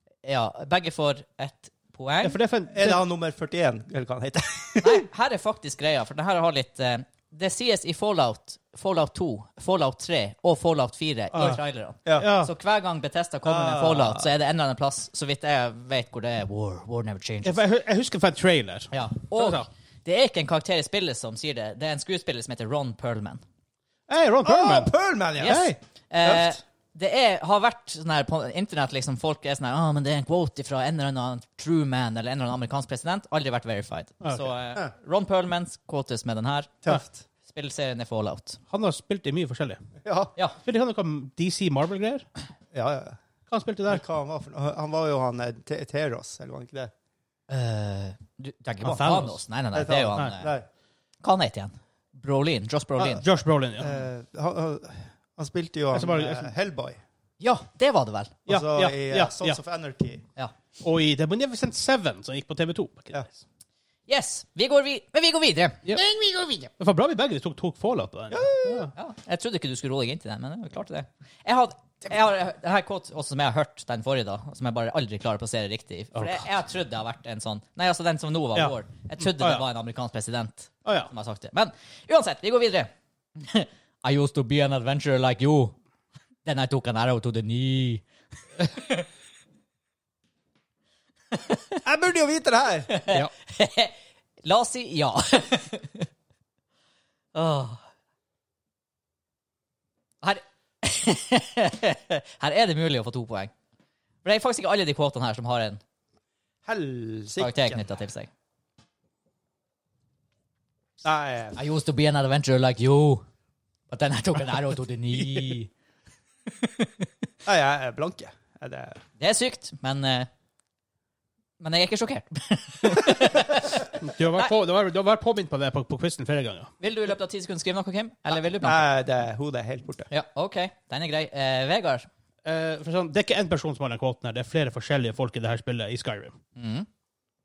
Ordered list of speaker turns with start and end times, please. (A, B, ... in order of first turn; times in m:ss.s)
0:00.2-0:02.4 A
0:02.2-0:03.0 B
0:02.7-0:05.1 C
0:04.8-0:17.6 A
0:11.4-0:12.5 B
0:13.4-0:14.3 C
0:17.4-0:19.7 B
0:18.9-0:23.4 A
0:24.1-0:25.8 B
0:24.4-0:25.6 C
0:25.4-0:36.8 A
0:26.2-0:26.6 C
0:34.2-0:34.5 B
0:36.8-0:37.2 C
0:37.5-0:38.6 A
0:38.7-0:39.8 B
0:40.0-0:40.3 C
0:40.6-0:42.2 B
0:42.7-0:43.2 C
0:43.5-0:44.0 B
0:43.9-0:46.9 C
0:47.5-0:50.5 A
0:48.8-0:49.4 B
0:49.7-0:50.7 C
0:51.2-0:53.2 A
0:53.0-0:53.9 B
0:53.8-0:57.0 C
0:55.9-0:56.5 B
0:57.4-0:58.4 A
0:58.5-0:59.6 B
0:58.5-1:00.2 C
1:00.8-1:03.4 B
1:04.1-1:06.7 A
1:06.8-1:08.9 B
1:08.3-1:08.9 C
1:09.0-1:25.8 A
1:16.2-1:16.5 B
1:18.6-1:19.6 B
1:20.8-1:21.1 B
1:26.4-1:28.0 A
1:31.8-1:32.9 C
1:32.9-1:36.1 A
1:37.3-1:37.8 A
1:40.2-1:43.5 A
1:44.2-1:45.8 A
1:46.6-1:47.8 C
1:47.4-1:48.3 A
1:51.0-1:51.6 C
1:51.6-1:53.2 A
1:53.9-1:55.7 A
1:56.6-1:56.9 A
1:57.4-1:59.0 C
1:59.2-2:00.3 A
2:01.6-2:04.5 A
2:03.9-2:06.7 B
2:06.8-2:08.9 A
2:08.6-2:10.1 C
2:10.1-2:12.1 A
2:12.4-2:16.4 B
2:16.6-2:16.9 A